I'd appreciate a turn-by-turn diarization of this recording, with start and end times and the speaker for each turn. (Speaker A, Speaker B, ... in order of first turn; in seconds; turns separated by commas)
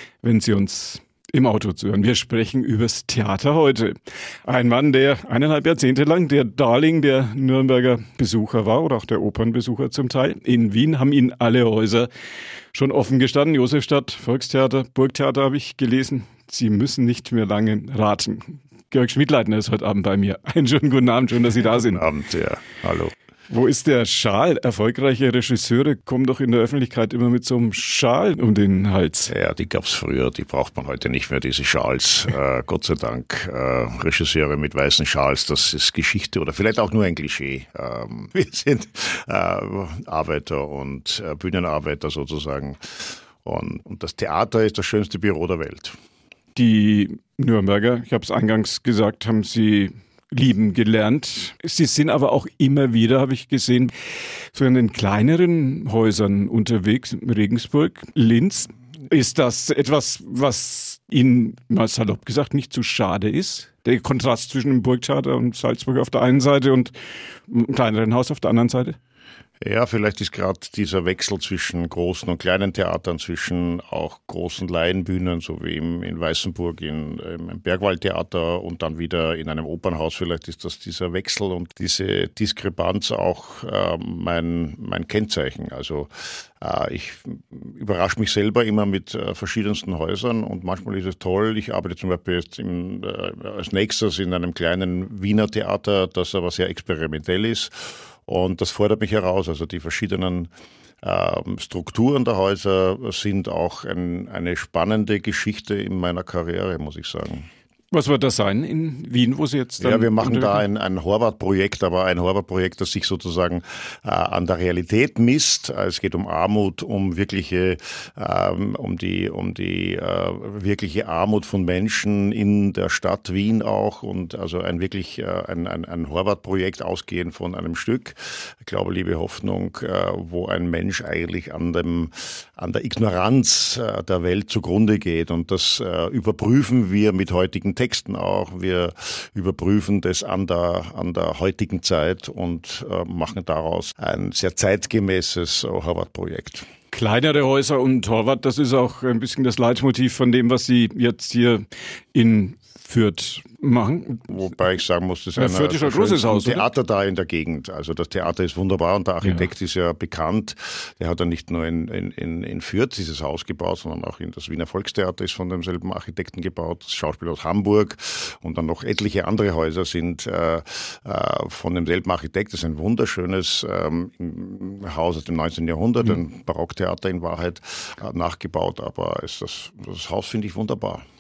Speaker A: 0.2-12.1, Speaker A: 12.7-22.0, Speaker B: 21.7-23.1, Speaker A: 23.5-29.3, Speaker B: 29.3-46.0, Speaker A: 46.6-53.9, Speaker A: 54.5-66.9, Speaker A: 67.5-69.0, Speaker B: 69.6-100.5, Speaker B: 101.0-107.5, Speaker A: 107.9-110.7, Speaker B: 109.8-146.7, Speaker A: 146.9-154.3, Speaker B: 154.3-181.0, Speaker A: 155.4-156.7